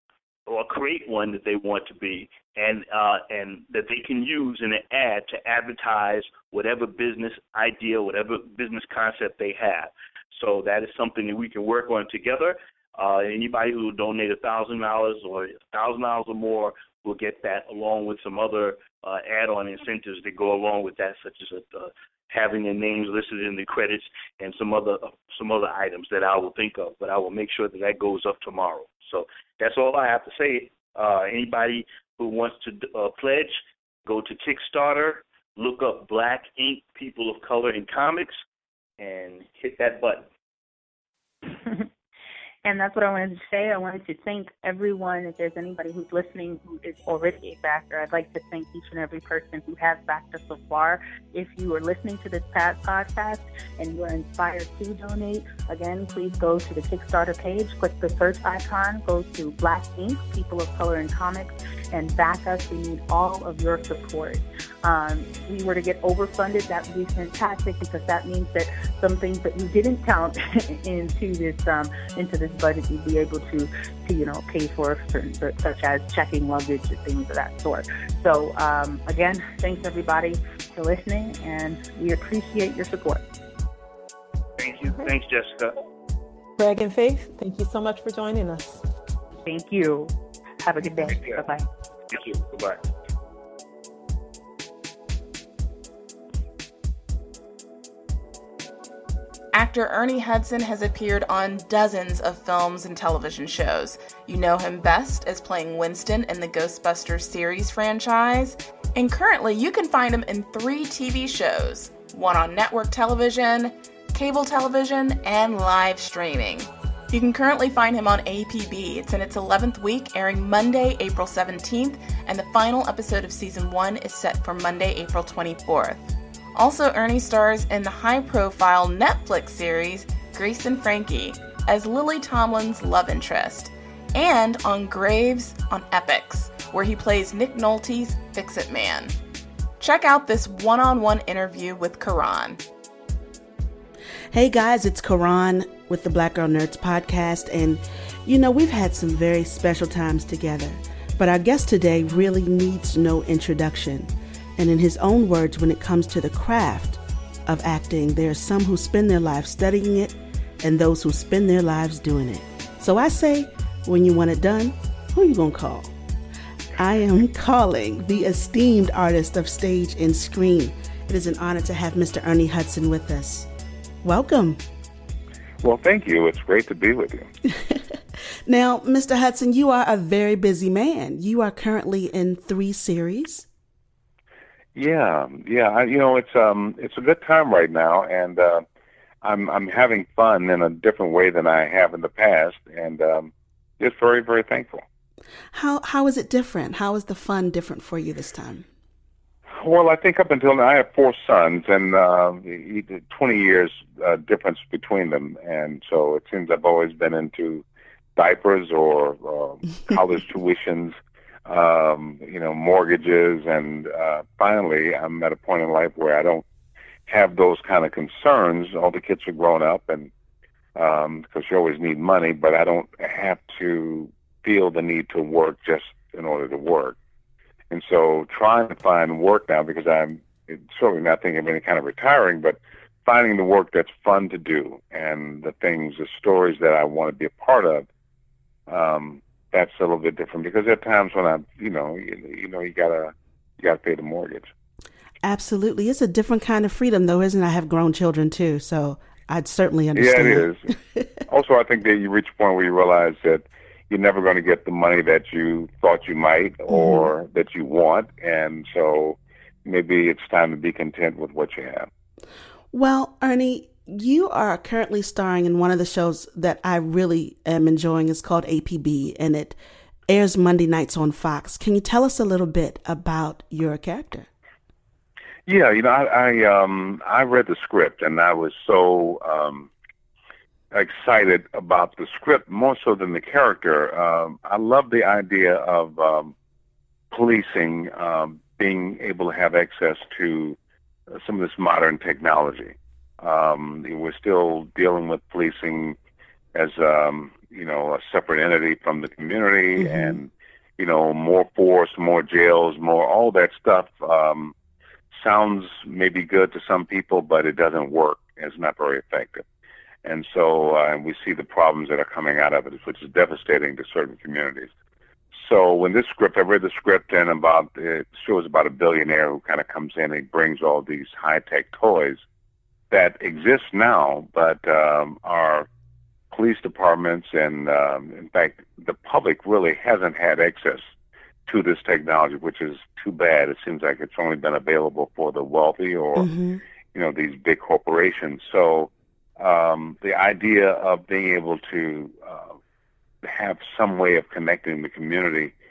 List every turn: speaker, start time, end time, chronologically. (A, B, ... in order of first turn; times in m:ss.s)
0:00.5-0:38.4 A
0:39.0-0:40.3 A
0:42.6-1:23.2 B
1:24.6-1:25.7 A
1:26.6-1:28.8 C
1:29.4-1:31.6 B
1:31.0-1:31.4 A
1:32.1-1:32.8 A
1:39.5-2:19.1 D
2:19.8-2:22.6 D
2:24.3-2:45.9 E
2:46.7-2:53.5 E
2:54.0-2:54.6 E
2:55.6-2:57.3 F
2:58.5-3:03.4 E
3:04.7-3:08.6 F
3:09.2-3:14.8 F
3:15.5-3:18.6 E
3:19.5-3:27.6 F
3:28.2-3:36.4 F
3:37.1-3:40.1 F
3:40.8-3:47.0 F
3:47.7-3:57.9 F
3:58.7-4:04.5 F
4:05.2-4:11.0 E
4:10.0-4:10.6 F
4:11.3-4:21.9 F
4:16.7-4:17.1 E
4:22.7-4:29.6 E
4:30.1-4:34.3 E
4:35.5-4:39.7 F
4:40.7-4:46.3 F
4:47.1-4:50.6 F
4:51.1-4:56.0 F
4:56.5-5:04.5 F
4:59.8-5:00.2 E
5:05.1-5:09.4 F
5:10.0-5:14.7 F
5:15.3-5:22.2 F
5:22.9-5:25.6 F
5:26.3-5:30.9 F
5:31.5-5:36.3 F
5:36.2-5:36.6 E
5:36.9-5:42.5 F
5:43.2-5:45.5 F